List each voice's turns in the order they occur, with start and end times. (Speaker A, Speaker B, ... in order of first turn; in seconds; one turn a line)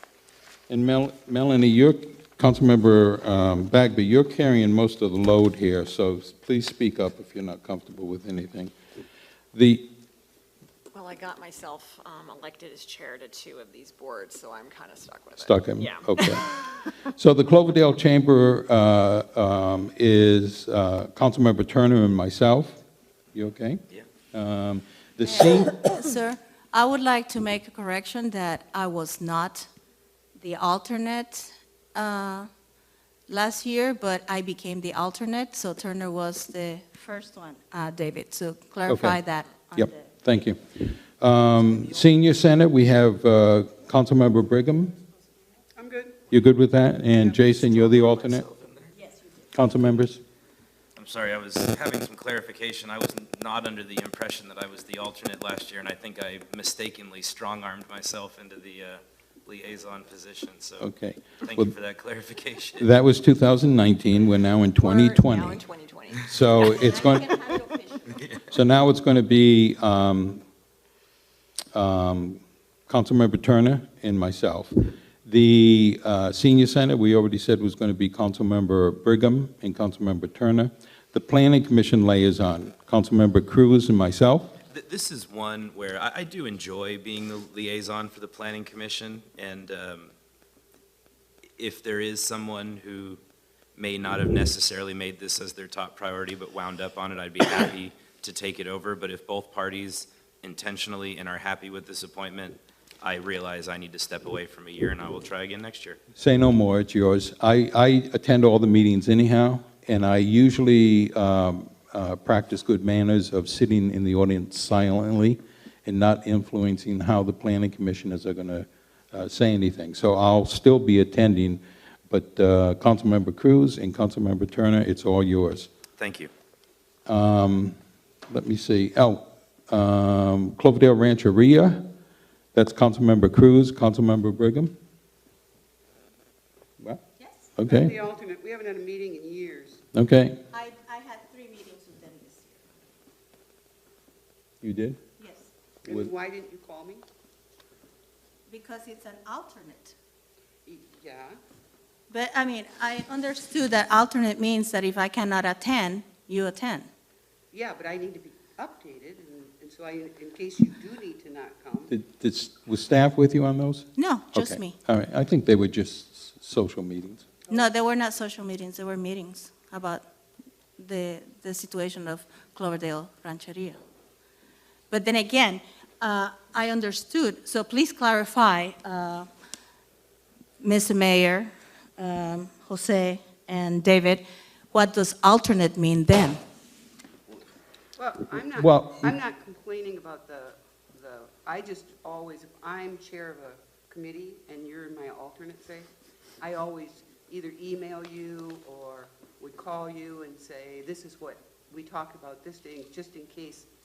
Speaker A: 0.7-8.7
Speaker A: 9.5-9.9
Speaker B: 10.9-16.9
Speaker A: 15.3-16.5
Speaker A: 17.1-22.8
Speaker A: 23.3-23.8
Speaker A: 24.3-25.9
Speaker C: 25.2-29.7
Speaker C: 30.4-32.5
Speaker C: 33.3-40.2
Speaker A: 38.9-39.2
Speaker A: 39.7-45.0
Speaker D: 45.8-46.2
Speaker A: 46.3-48.5
Speaker E: 47.4-48.9
Speaker A: 49.5-50.2
Speaker E: 51.0-60.9
Speaker A: 60.8-61.7
Speaker E: 61.4-62.9
Speaker A: 62.8-65.6
Speaker B: 64.8-66.8
Speaker A: 66.2-67.4
Speaker C: 66.8-68.2
Speaker E: 68.1-68.5
Speaker A: 68.5-70.4
Speaker A: 71.7-84.5
Speaker E: 84.7-90.1
Speaker E: 91.6-93.2
Speaker E: 93.8-106.0
Speaker A: 106.2-125.7
Speaker E: 126.0-126.3
Speaker A: 127.1-127.8
Speaker A: 128.3-131.8
Speaker A: 132.5-134.7
Speaker C: 137.2-137.5
Speaker A: 137.6-137.9
Speaker D: 137.6-139.8
Speaker A: 139.9-140.4
Speaker C: 140.5-142.7
Speaker A: 144.6-145.0
Speaker C: 145.2-145.5
Speaker D: 145.8-147.0
Speaker C: 148.5-149.9
Speaker D: 150.6-151.4
Speaker C: 152.1-156.9
Speaker D: 157.5-161.9
Speaker A: 161.9-167.2
Speaker C: 163.9-164.8
Speaker C: 167.5-170.0
Speaker C: 170.8-173.8
Speaker C: 174.9-179.3
Speaker C: 180.6-186.4
Speaker D: 187.9-195.9
Speaker A: 188.6-189.1
Speaker D: 196.4-203.7